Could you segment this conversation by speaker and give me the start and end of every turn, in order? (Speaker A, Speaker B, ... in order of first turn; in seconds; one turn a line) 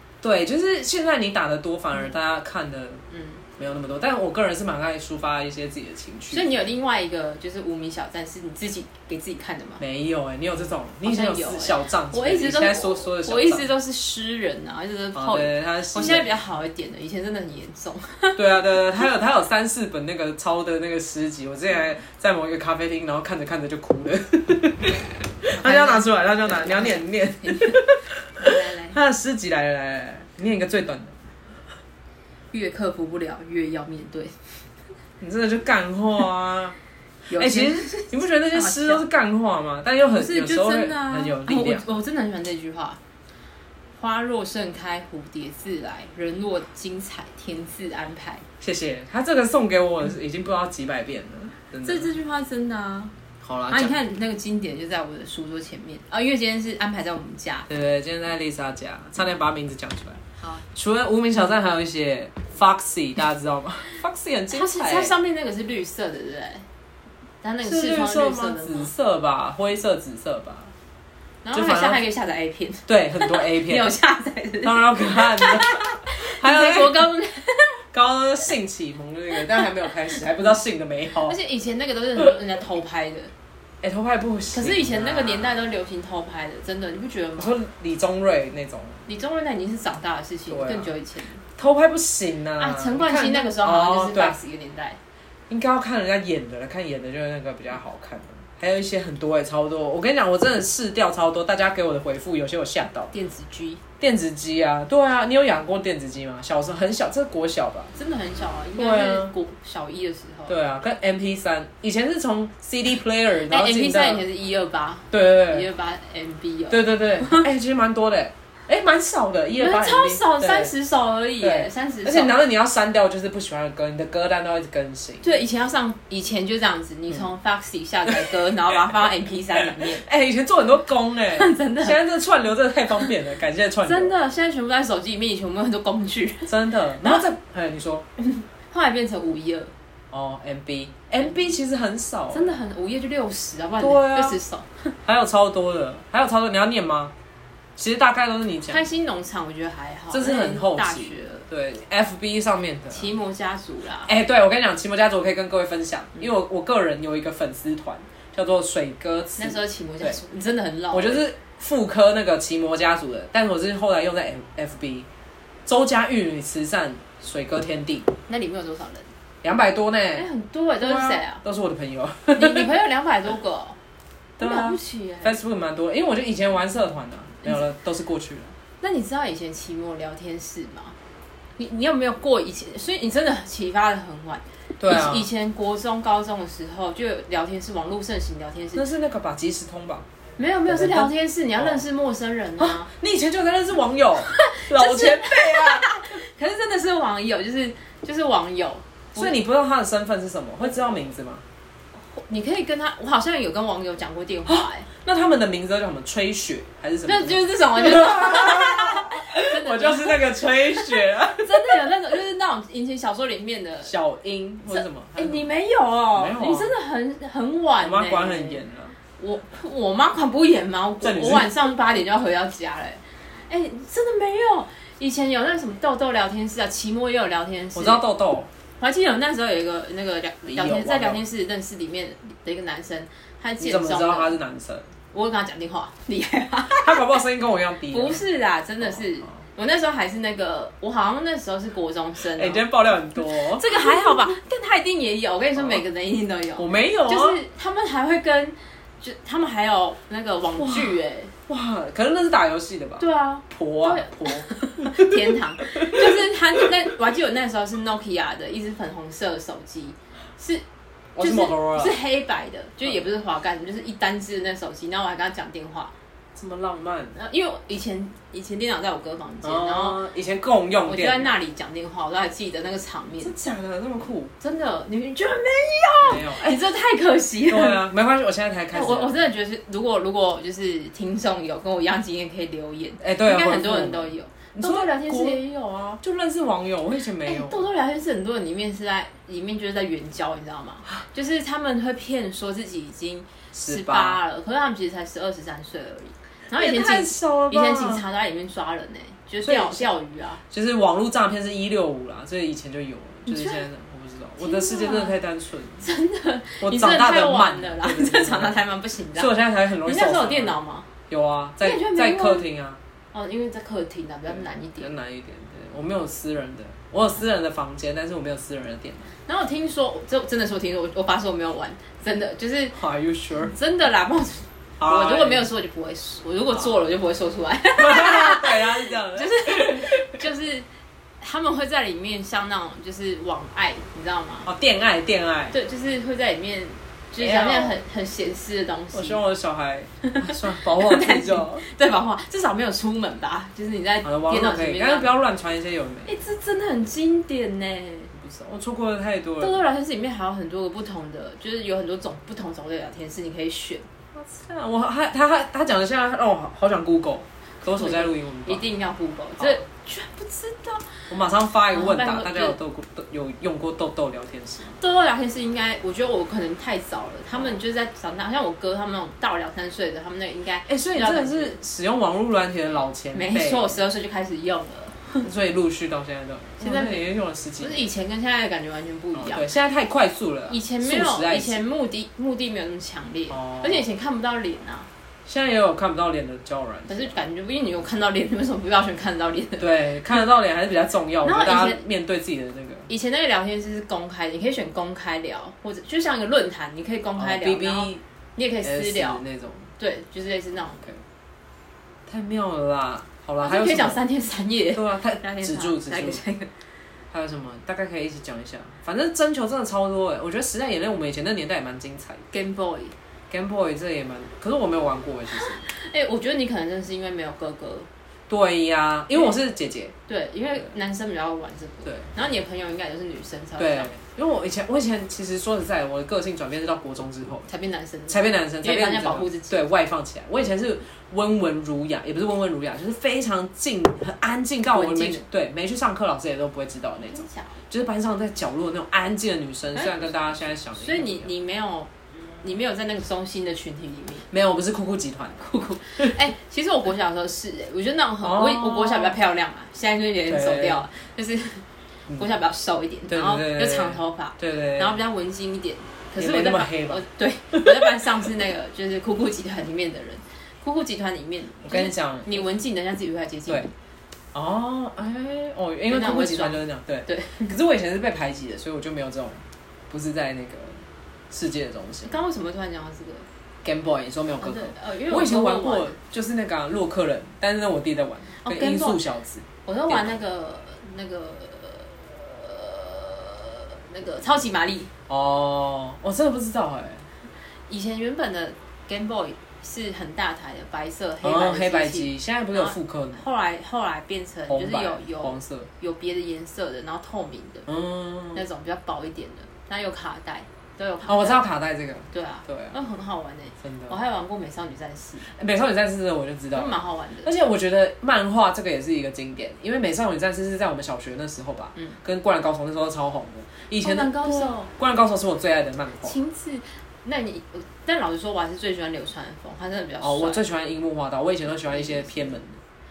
Speaker A: 0.2-3.0
Speaker B: 3.1-3.4
Speaker A: 3.6-6.5
Speaker B: 6.3-9.8
Speaker A: 9.8-13.7
Speaker B: 11.0-18.8
Speaker A: 15.1-16.3
Speaker A: 18.4-31.2
Speaker B: 25.5-27.8
Speaker B: 28.4-29.0
Speaker B: 32.5-34.6
Speaker A: 35.2-36.8
Speaker B: 37.3-39.0
Speaker A: 37.4-41.9
Speaker B: 40.1-43.0
Speaker B: 44.0-48.5
Speaker A: 48.6-52.1
Speaker B: 51.8-53.1
Speaker A: 53.4-54.0
Speaker B: 53.7-57.7
Speaker A: 57.7-60.2
Speaker B: 60.4-60.6
Speaker A: 60.7-65.1
Speaker B: 64.5-66.7
Speaker B: 67.4-68.9
Speaker A: 67.6-70.7
Speaker B: 71.4-77.8
Speaker A: 71.5-72.0
Speaker A: 72.9-73.9
Speaker A: 74.6-77.1
Speaker A: 77.9-81.4
Speaker B: 81.2-83.3
Speaker A: 83.8-85.6
Speaker B: 84.5-87.5
Speaker A: 87.4-89.0
Speaker B: 89.1-91.4
Speaker A: 90.5-90.9
Speaker A: 91.6-94.4
Speaker B: 92.6-95.0
Speaker A: 95.5-103.1
Speaker B: 103.1-103.8
Speaker A: 104.0-107.9
Speaker B: 108.0-110.6
Speaker A: 108.8-109.3
Speaker A: 110.5-114.2
Speaker B: 113.5-117.5
Speaker A: 115.1-115.7
Speaker A: 116.7-120.7
Speaker B: 119.6-122.4
Speaker A: 121.4-125.3
Speaker B: 125.2-130.0
Speaker A: 129.6-134.1
Speaker B: 131.3-132.0
Speaker B: 133.8-137.2
Speaker A: 136.5-138.1
Speaker B: 138.2-139.7
Speaker A: 140.1-142.6
Speaker B: 142.3-145.0
Speaker A: 143.8-144.4
Speaker A: 145.1-147.1
Speaker A: 147.8-148.8
Speaker B: 148.7-151.5
Speaker A: 150.1-153.1
Speaker B: 152.9-154.1
Speaker A: 154.1-160.2
Speaker B: 159.4-161.3
Speaker A: 160.9-165.1
Speaker A: 165.7-168.1
Speaker B: 168.3-169.1
Speaker A: 169.4-170.3
Speaker B: 170.2-171.4
Speaker A: 170.8-172.7
Speaker B: 172.3-173.8
Speaker A: 174.4-178.5
Speaker B: 174.4-175.3
Speaker B: 178.8-180.9
Speaker B: 181.6-188.8
Speaker A: 184.8-185.3
Speaker A: 188.8-190.1
Speaker B: 190.4-192.9
Speaker A: 190.7-191.8
Speaker A: 192.6-195.9
Speaker B: 194.3-199.3
Speaker A: 199.2-201.4
Speaker B: 202.0-204.9
Speaker A: 204.5-211.8
Speaker B: 207.1-210.2
Speaker B: 210.9-213.9
Speaker A: 213.8-215.4
Speaker B: 214.7-218.6
Speaker A: 216.2-216.7
Speaker A: 217.8-219.0
Speaker B: 219.2-228.0
Speaker A: 221.0-221.5
Speaker A: 227.8-228.5
Speaker B: 228.8-234.4
Speaker A: 230.4-231.2
Speaker A: 233.6-234.9
Speaker B: 235.1-237.2
Speaker A: 236.8-238.2
Speaker B: 237.9-242.7
Speaker A: 242.3-244.3
Speaker B: 243.2-251.3
Speaker A: 245.6-245.8
Speaker A: 246.6-247.4
Speaker A: 250.6-255.1
Speaker B: 253.0-260.6
Speaker A: 255.8-256.2
Speaker A: 261.2-262.0
Speaker B: 261.2-265.9
Speaker A: 266.4-267.2
Speaker B: 267.1-270.0
Speaker A: 269.4-271.3
Speaker B: 270.9-273.3
Speaker A: 273.2-274.3
Speaker B: 274.4-277.8
Speaker A: 276.1-276.5
Speaker A: 277.5-279.2
Speaker B: 278.7-285.8
Speaker A: 283.0-287.6
Speaker B: 287.2-300.4
Speaker A: 293.5-294.2
Speaker A: 296.5-298.1
Speaker A: 299.4-299.9
Speaker A: 300.5-305.8
Speaker B: 303.3-303.6
Speaker B: 304.4-305.2
Speaker B: 305.8-310.9
Speaker A: 306.6-308.6
Speaker A: 309.1-310.6
Speaker A: 311.1-312.8
Speaker B: 311.6-312.5
Speaker B: 313.1-314.9
Speaker A: 314.3-319.1
Speaker B: 319.3-322.8
Speaker A: 322.8-323.5
Speaker B: 323.4-330.7
Speaker A: 324.8-325.5
Speaker A: 327.8-330.2
Speaker B: 331.2-334.5
Speaker A: 334.5-335.5
Speaker B: 335.5-339.2
Speaker A: 337.2-337.8
Speaker A: 338.9-341.6
Speaker B: 340.1-345.1
Speaker A: 344.0-346.1
Speaker B: 346.1-348.1
Speaker A: 348.1-349.6
Speaker B: 349.4-353.9
Speaker A: 354.1-358.6
Speaker B: 357.6-361.1
Speaker A: 361.1-364.8
Speaker B: 361.7-362.6
Speaker B: 364.7-371.6
Speaker A: 370.7-373.8
Speaker B: 373.1-375.3
Speaker A: 375.2-377.9
Speaker B: 376.6-377.1
Speaker B: 377.6-379.5
Speaker A: 379.2-381.6
Speaker B: 380.5-384.9
Speaker A: 383.3-383.8
Speaker A: 385.3-387.2
Speaker B: 386.9-389.8
Speaker A: 389.6-392.9
Speaker B: 391.2-391.8
Speaker B: 392.9-399.2
Speaker A: 397.2-398.0
Speaker A: 398.6-399.7
Speaker B: 399.8-400.8
Speaker A: 402.1-404.0
Speaker B: 403.4-406.5
Speaker A: 404.7-406.2
Speaker A: 407.1-412.2
Speaker B: 412.3-412.9
Speaker A: 413.3-415.6
Speaker B: 415.4-417.9
Speaker A: 418.3-419.9
Speaker B: 420.1-423.9
Speaker A: 421.9-422.1
Speaker A: 423.6-427.5
Speaker B: 427.5-429.7
Speaker A: 428.1-441.3
Speaker B: 434.7-435.2
Speaker B: 437.1-437.6
Speaker B: 439.8-440.1
Speaker B: 440.8-441.9
Speaker B: 442.4-444.3
Speaker A: 444.3-446.2
Speaker B: 445.5-463.7
Speaker A: 448.2-449.2
Speaker A: 450.3-450.9
Speaker A: 453.1-455.0
Speaker A: 456.2-458.0
Speaker A: 461.6-462.5
Speaker A: 464.3-472.2
Speaker B: 465.9-467.5
Speaker B: 472.1-473.3
Speaker A: 473.6-480.1
Speaker B: 474.4-476.0
Speaker B: 478.4-479.0
Speaker B: 479.7-484.9
Speaker A: 485.1-487.1
Speaker B: 487.7-497.7
Speaker A: 491.2-493.2
Speaker A: 494.5-495.7
Speaker A: 497.7-498.4
Speaker B: 498.4-501.4
Speaker A: 501.1-502.7
Speaker B: 502.1-505.3
Speaker A: 503.6-503.9
Speaker A: 505.2-516.2
Speaker B: 506.5-507.3
Speaker B: 513.8-514.7
Speaker B: 516.0-520.4
Speaker A: 520.0-522.6
Speaker B: 521.7-522.2